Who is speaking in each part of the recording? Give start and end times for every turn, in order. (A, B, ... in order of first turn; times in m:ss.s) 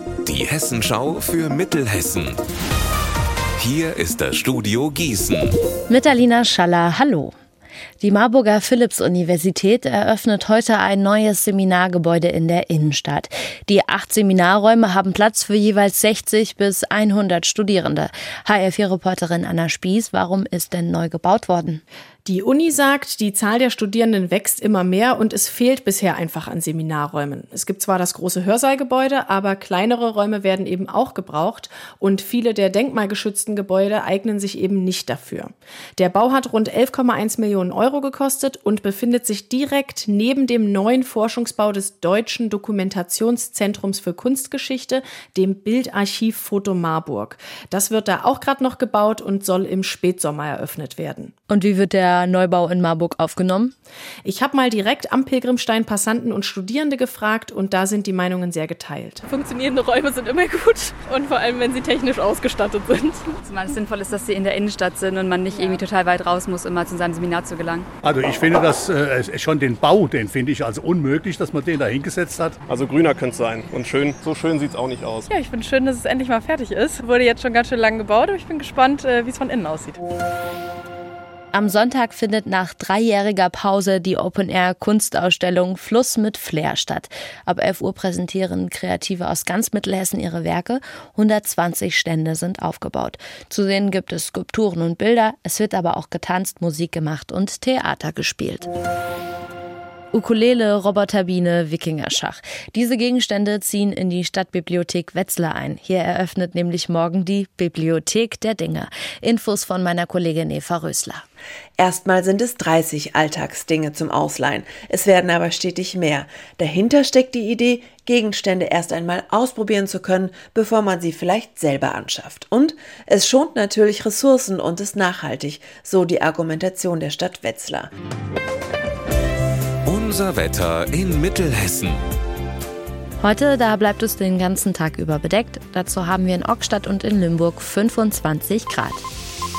0:00.2-0:02.4 A
0:03.6-0:05.5 A
0:05.9-0:07.3 B
0:08.0-0:21.8 B
0:22.2-0:51.3 C
0:51.5-0:53.7 B
0:54.2-0:59.2 C
0:59.3-1:03.3 D
1:03.4-1:07.8 E
1:05.5-1:05.8 D
1:08.0-1:12.6 F
1:12.7-1:15.3 G
1:15.3-1:20.0 D
1:21.5-1:38.6 B
1:40.1-1:51.2 B
1:51.8-2:07.9 H
2:09.8-2:12.0 A
2:13.2-2:19.0 B